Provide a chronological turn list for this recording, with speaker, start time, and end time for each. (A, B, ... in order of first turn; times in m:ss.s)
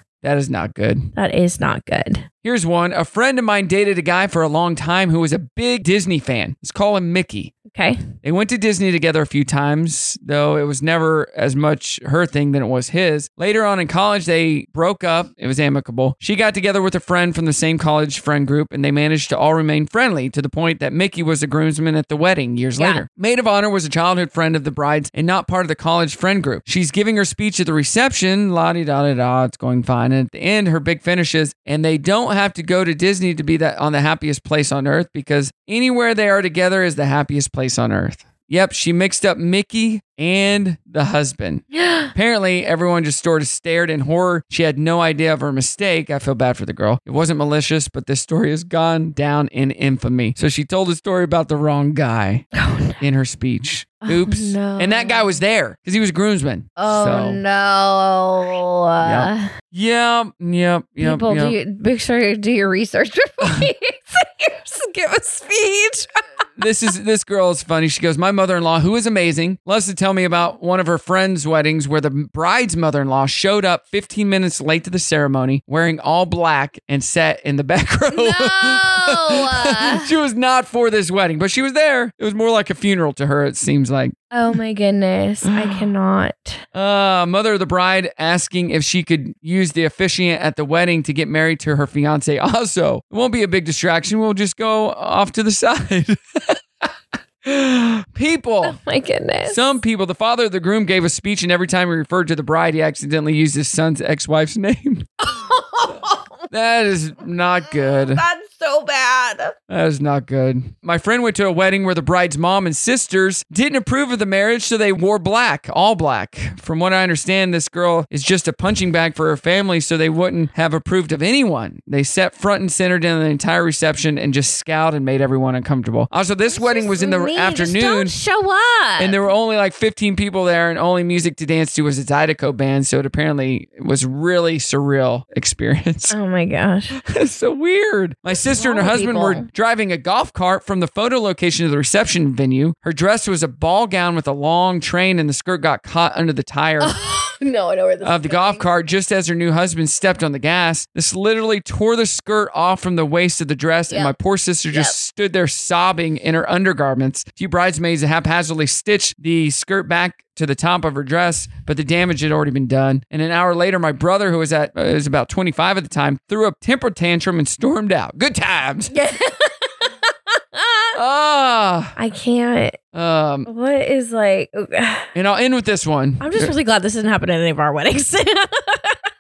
0:00.2-0:01.1 A
0:01.2-0:02.2 B
0:02.4-0:07.6 A
0:07.7-0:08.0 B
0:08.2-0:52.5 A
0:22.8-0:23.0 B
0:41.8-0:42.1 B
0:52.6-0:53.0 B
0:53.0-0:57.4 A
0:54.0-0:55.4 B
0:56.8-0:59.5 B
0:59.0-1:01.6 A
1:01.0-1:06.1 B
1:06.6-1:24.2 A
1:18.1-1:20.1 B
1:24.3-1:26.6 B
1:26.7-1:36.6 A
1:37.4-1:38.8 A
1:38.6-1:39.6 B
1:39.5-1:45.1 A
1:45.2-1:46.3 B
1:46.5-1:48.2 A
1:47.7-1:49.6 B
1:49.7-2:08.2 A
2:06.5-2:09.2 B
2:09.0-2:16.2 A
2:16.1-2:17.0 B
2:17.0-2:26.9 A
2:18.3-2:19.5 B
2:26.8-2:28.7 B
2:28.0-2:48.9 A
2:48.9-2:49.9 B
2:50.5-2:51.0 B
2:51.0-2:52.0 A
2:52.0-2:52.8 B
2:52.9-2:53.5 A
2:53.5-2:55.1 B
2:55.2-2:56.5 A
2:56.2-2:59.0 B